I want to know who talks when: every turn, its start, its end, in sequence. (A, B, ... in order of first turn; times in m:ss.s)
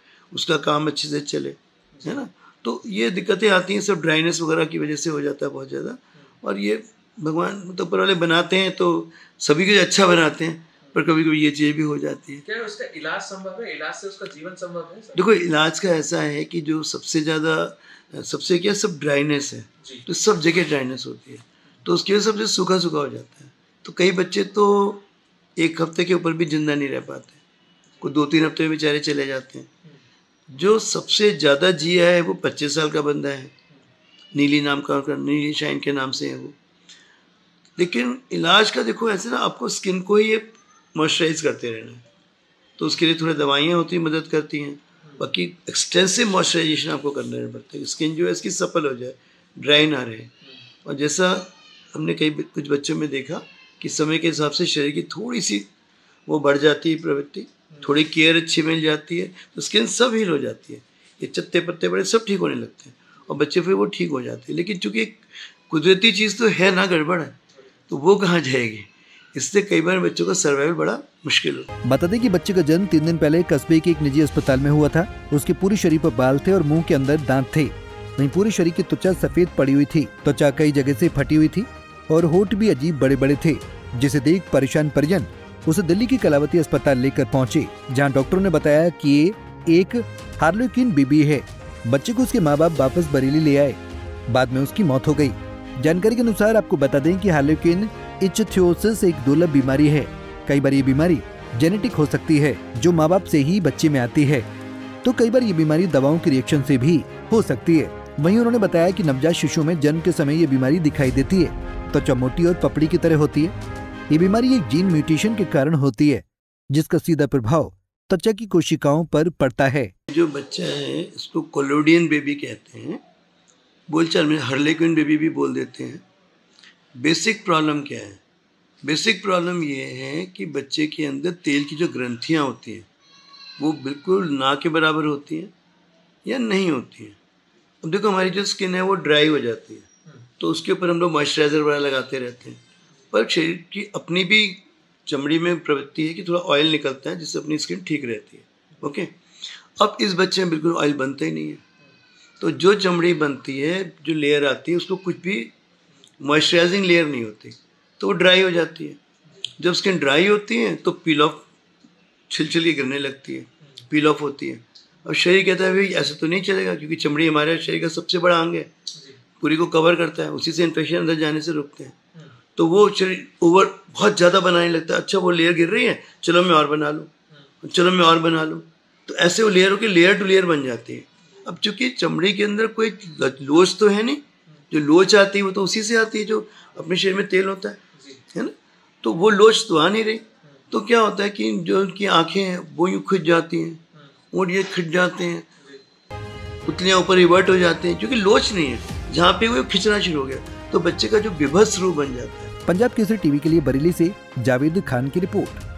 0:00.3-0:12.4 A
0:12.4-0:15.2 B
0:15.2-0:25.1 A
0:25.6-0:27.4 A
0:28.0-0:29.7 A
0:30.5-0:33.5 A
0:34.3-0:36.6 A
0:37.8-0:42.0 A
0:42.8-0:50.3 A
0:50.8-0:55.7 A
0:56.3-1:07.4 A
1:07.9-1:11.7 A
1:11.9-1:44.5 C
1:45.0-1:53.5 C
1:54.1-1:59.9 C
2:00.1-2:03.0 A
2:03.9-2:06.0 A
2:07.0-2:08.2 A
2:08.8-2:12.9 A
2:13.6-2:15.5 A
2:16.2-2:17.2 A
2:17.8-2:19.9 A
2:20.4-2:29.2 A
2:29.8-2:31.6 A
2:32.4-2:35.5 A
2:36.2-2:39.0 A
2:39.6-2:41.5 A
2:42.3-2:48.7 A
2:49.4-2:52.0 A
2:52.6-2:57.1 A
2:57.6-3:07.8 A
3:08.0-3:08.2 B
3:08.3-3:15.5 A
3:16.7-3:22.5 A
3:22.7-3:25.6 C